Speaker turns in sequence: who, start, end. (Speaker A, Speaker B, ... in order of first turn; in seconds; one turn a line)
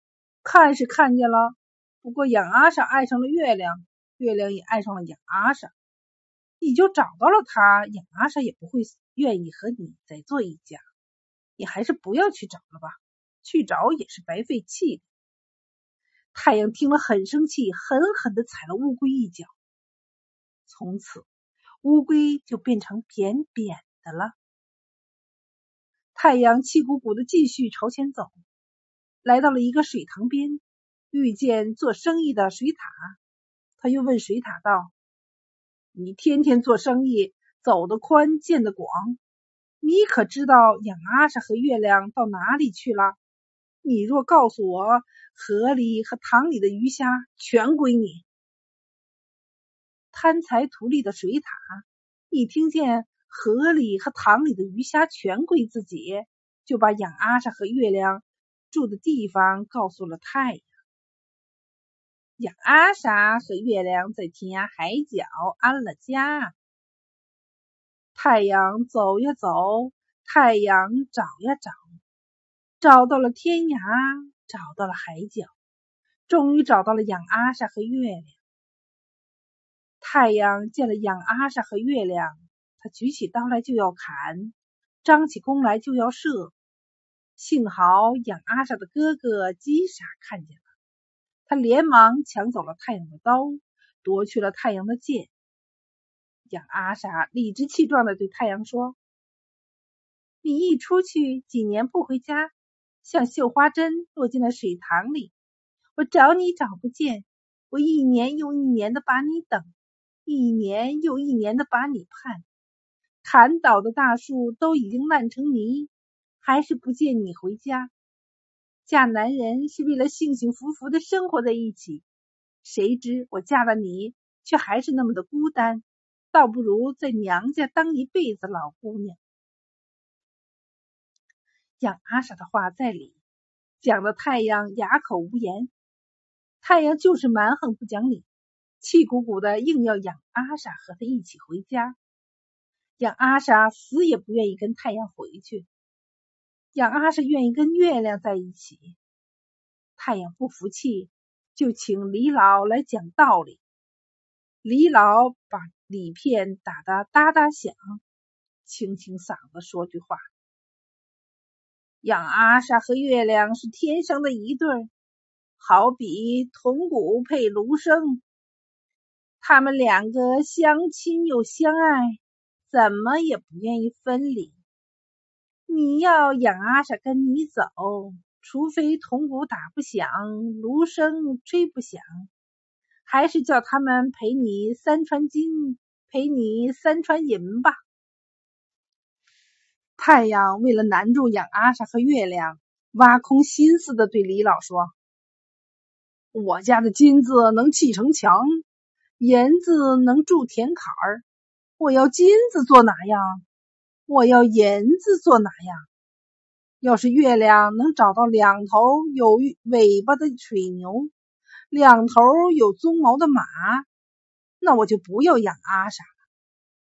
Speaker A: 0.4-5.7
Speaker A: 6.6-10.8
Speaker A: 11.6-15.1
Speaker A: 16.3-19.5
Speaker A: 20.7-21.3
Speaker A: 21.8-24.4
Speaker A: 26.1-28.3
Speaker A: 29.2-33.2
Speaker A: 33.8-34.9
Speaker A: 35.9-39.2
Speaker A: 39.8-43.2
Speaker A: 43.8-48.2
Speaker A: 50.1-60.7
Speaker A: 62.4-66.5
Speaker A: 68.2-71.9
Speaker A: 72.8-75.5
Speaker A: 76.3-78.4
Speaker A: 80.0-86.5
Speaker A: 87.4-90.7
Speaker A: 91.5-95.3
Speaker A: 96.5-99.0
Speaker A: 100.4-105.3
Speaker A: 106.0-109.7
Speaker A: 110.2-112.5
Speaker A: 113.2-117.9
Speaker A: 118.9-122.0
Speaker A: 122.6-129.2
Speaker A: 131.8-133.2
Speaker A: 133.8-135.7
Speaker A: 136.6-138.3
Speaker A: 138.8-142.0
Speaker A: 143.0-145.7
Speaker A: 146.7-149.0
Speaker A: 150.0-153.6
Speaker A: 154.6-158.0
Speaker A: 158.6-160.3
Speaker A: 162.0-164.9
Speaker A: 165.6-168.2
Speaker A: 169.4-174.6
Speaker A: 175.7-182.3
Speaker A: 183.1-187.8
Speaker A: 190.0-194.9
Speaker A: 196.3-198.6
Speaker A: 199.2-201.2
Speaker A: 201.8-203.4
Speaker A: 204.1-205.9
Speaker A: 206.8-211.1
Speaker A: 211.7-213.9
Speaker A: 214.6-216.1